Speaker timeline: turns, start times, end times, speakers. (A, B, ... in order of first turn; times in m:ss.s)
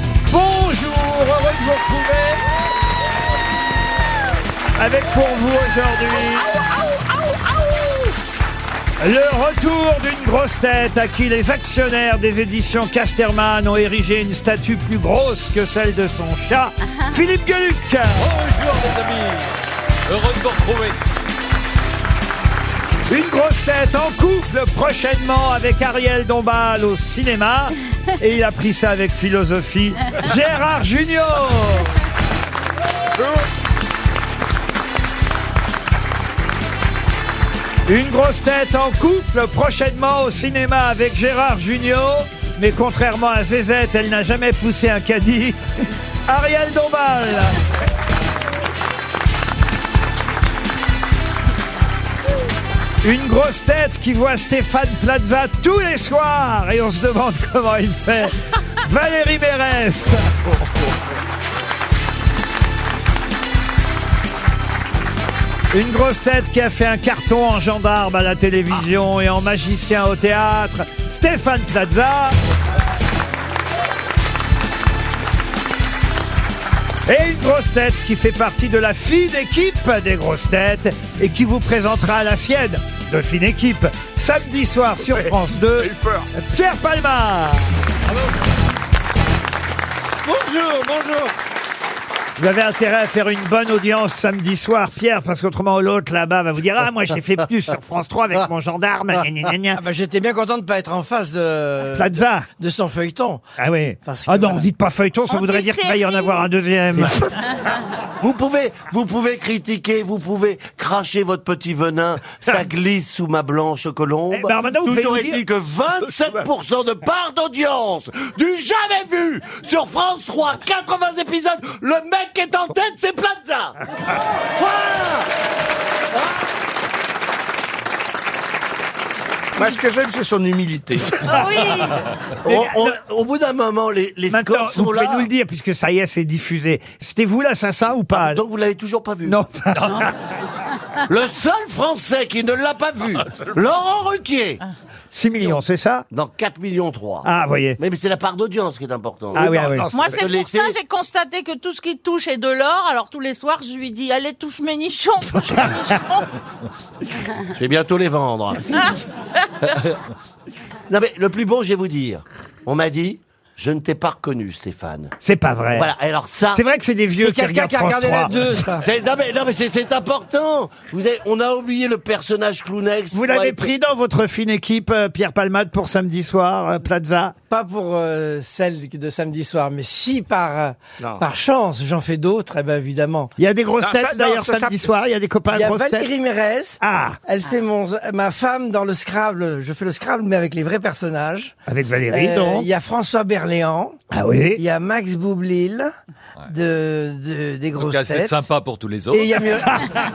0:00.3-0:02.4 A
0:04.8-0:06.6 A
0:09.0-0:18.3 A
0:18.2-0:19.5 B
0:20.1-0:21.0 B
0:23.1-0:31.9 A
0:37.9-0:45.6 A
0:46.3-0:47.6 A
0:53.0-1:00.2 A
1:05.7-1:12.4 A
1:17.1-1:27.7 A
1:25.1-1:26.3 C
1:30.4-1:30.9 A
1:32.4-1:39.8 A
1:39.7-1:43.4 D
1:41.9-1:42.5 A
1:43.6-1:47.3 A
1:44.1-1:44.6 D
1:45.3-1:46.2 E
1:48.2-2:03.8 F
1:54.3-1:55.4 A
2:04.5-2:05.3 F
2:09.6-2:11.5 C
2:11.3-2:12.0 E
2:12.4-2:13.0 A
2:12.4-2:15.3 F
2:14.3-2:18.4 A
2:18.1-2:19.4 F
2:19.2-2:20.1 A
2:21.0-2:24.6 F
2:25.1-2:26.0 A
2:26.1-2:30.8 F
2:27.2-2:27.8 A
2:29.3-2:29.9 A
2:29.4-2:30.3 C
2:30.2-2:36.3 E
2:37.4-2:38.8 F
2:39.7-2:40.0 F
2:40.9-2:45.2 F
2:45.2-2:45.9 A
2:45.7-2:46.6 F
2:46.5-2:48.5 A
2:47.2-2:48.9 D
2:48.8-2:53.7 F
2:53.1-2:57.4 A
2:57.5-3:03.3 D
3:03.4-3:06.1 A
3:03.8-3:04.9 C
3:05.5-3:11.6 D
3:06.8-3:07.2 A
3:11.7-3:12.7 A
3:12.1-3:14.0 D
3:14.1-3:14.6 A
3:14.6-3:15.9 D
3:16.5-3:18.4 D
3:17.8-3:19.3 B
3:19.1-3:19.9 D
3:19.6-3:19.9 A